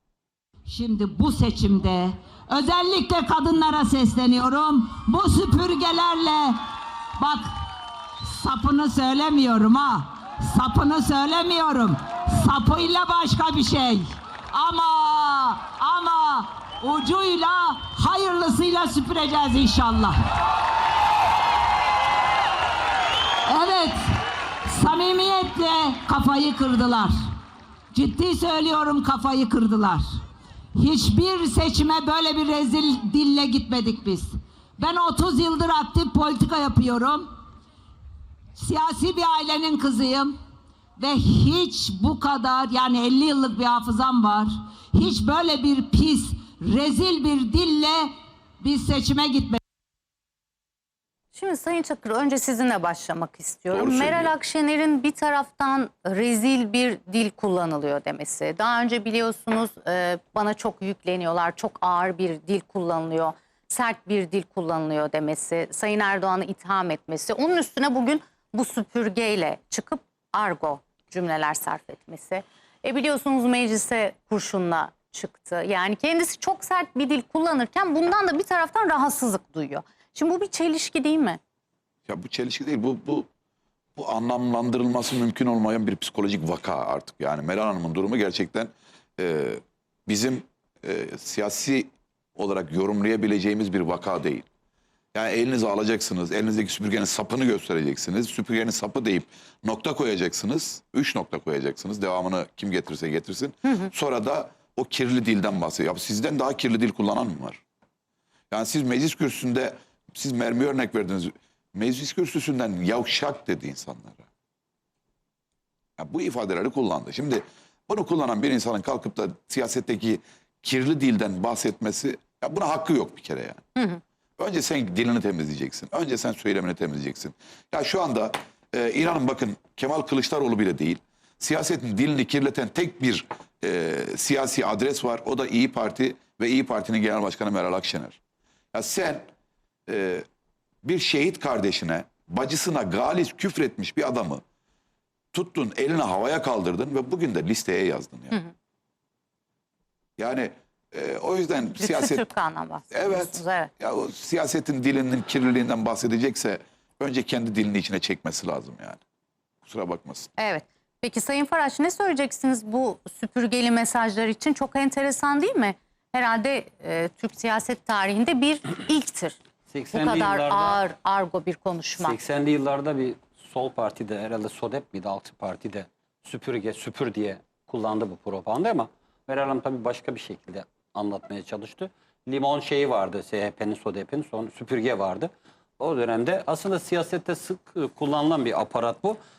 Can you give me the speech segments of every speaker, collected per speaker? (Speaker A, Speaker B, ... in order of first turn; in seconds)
Speaker A: 0.7-6.6, 7.2-7.5, 8.2-20.2, 23.5-24.0, 24.7-27.1, 27.9-30.0, 30.8-37.3, 38.6-40.4, 41.0-48.1, 48.6-49.6
Speaker B: 51.3-81.4, 151.8-153.7, 160.4-169.4, 169.9-172.2
Speaker C: 53.7-54.3, 82.1-83.3, 84.0-94.5, 95.1-107.6, 108.5-114.3, 116.0-123.6, 124.4-138.2, 138.7-139.3, 139.9-140.2, 140.8-144.4, 145.3-148.4, 150.2-152.2, 152.9-159.0, 159.7-160.3
Speaker D: 169.7-170.8, 172.0-189.2